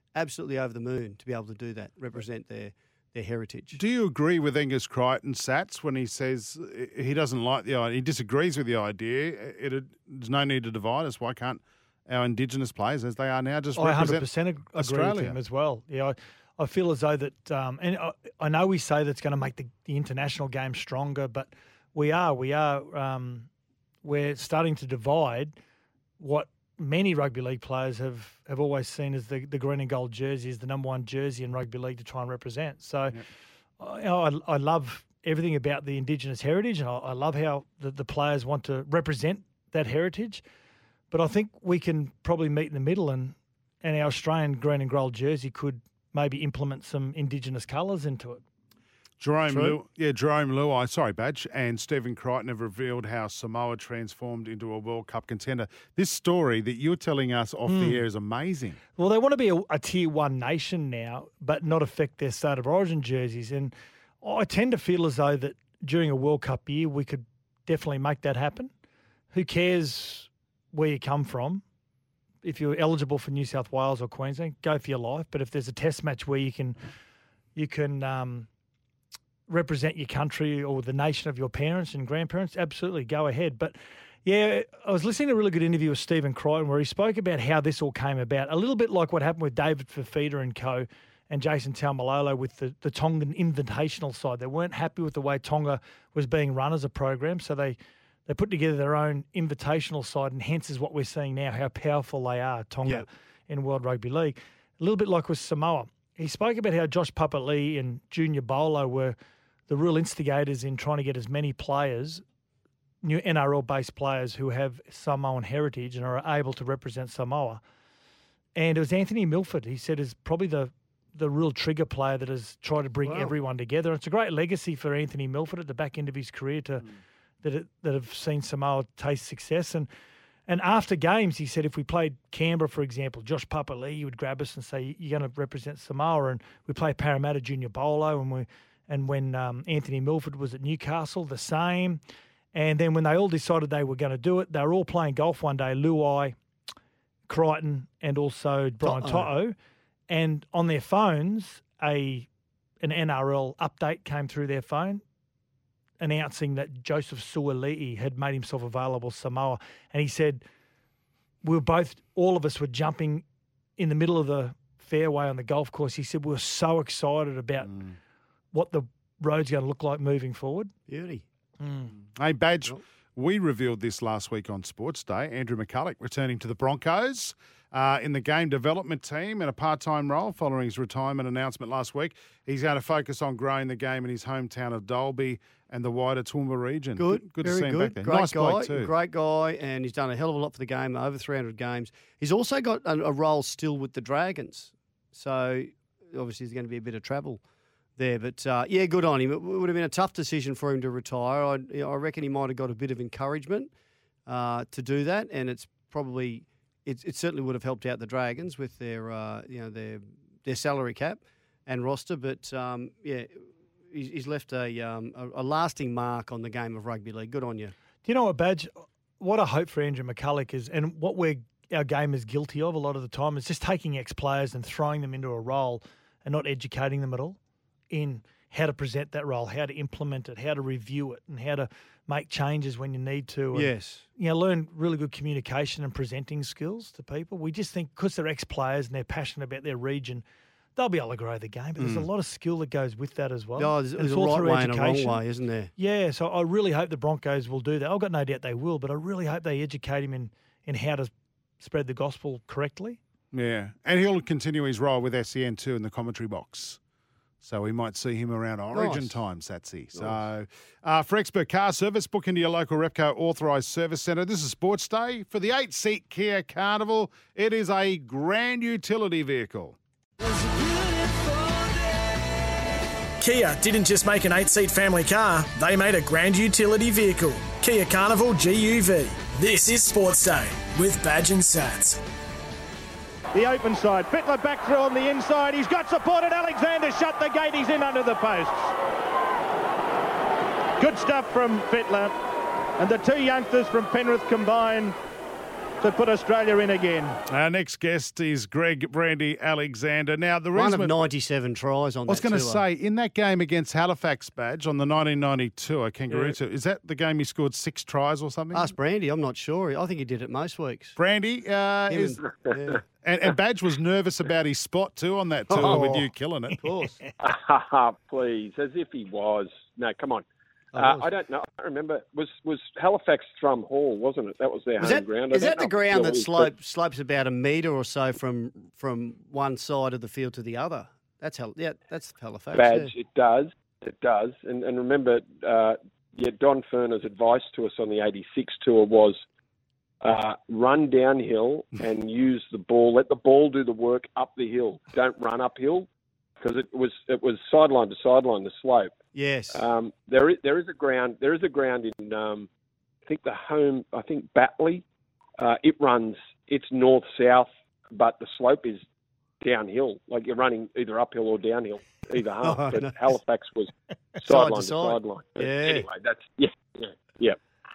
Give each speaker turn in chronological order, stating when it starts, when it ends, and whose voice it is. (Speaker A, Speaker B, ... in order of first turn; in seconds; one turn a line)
Speaker A: 0.1-3.8
Speaker B: 3.8-15.4
Speaker C: 13.8-23.5
Speaker C: 24.0-25.6
Speaker C: 26.2-33.2
Speaker C: 33.8-40.4
Speaker C: 41.1-48.4
Speaker B: 49.2-58.8
Speaker A: 49.5-49.8
Speaker C: 57.7-58.0
Speaker C: 59.0-68.7
Speaker C: 69.3-71.6
Speaker C: 72.4-76.8
Speaker C: 77.5-78.5
Speaker C: 79.5-109.2
Speaker C: 109.7-112.2
Speaker C: 113.0-117.6
Speaker C: 118.6-126.9
Speaker A: 123.0-123.3
Speaker C: 127.4-129.9
Speaker C: 130.5-142.0
Speaker C: 142.5-146.4
Speaker C: 147.3-149.6
Speaker A: 148.8-149.3
Speaker C: 150.1-152.3
Speaker C: 152.8-155.0
Speaker C: 156.0-160.4
Speaker C: 161.4-163.2
Speaker C: 163.8-167.7
Speaker B: 167.7-167.9
Speaker C: 168.5-170.7
Speaker A: 170.9-171.2
Speaker C: 171.6-171.9
Speaker B: 172.1-188.9
Speaker A: 187.0-197.4
Speaker A: 198.0-203.7
Speaker A: 204.3-217.7
Speaker C: 218.1-227.4
Speaker C: 227.9-240.2
Speaker A: 233.5-234.1
Speaker C: 240.8-245.2
Speaker B: 241.8-242.1
Speaker A: 243.6-245.7
Speaker C: 245.8-253.0
Speaker B: 253.3-256.8
Speaker B: 257.4-269.8
Speaker A: 258.7-259.2
Speaker D: 273.2-282.0
Speaker E: 283.3-288.7
Speaker E: 290.8-292.1
Speaker E: 292.8-295.0
Speaker E: 295.8-297.2
Speaker B: 297.3-301.0
Speaker A: 300.6-302.6
Speaker B: 302.1-308.7
Speaker A: 306.1-306.4
Speaker A: 308.5-311.0
Speaker B: 311.0-312.2
Speaker A: 311.9-312.8
Speaker B: 313.0-316.6
Speaker A: 315.5-316.1
Speaker A: 316.6-317.0
Speaker F: 317.2-326.5
Speaker A: 320.7-321.1
Speaker A: 324.8-332.9
Speaker F: 332.5-339.2
Speaker F: 340.0-345.9
Speaker F: 346.4-348.9
Speaker A: 349.1-349.6
Speaker F: 349.5-352.5
Speaker F: 353.1-354.8
Speaker F: 355.4-358.8
Speaker F: 359.4-363.7
Speaker A: 362.4-363.0
Speaker F: 364.2-367.4
Speaker A: 364.2-365.9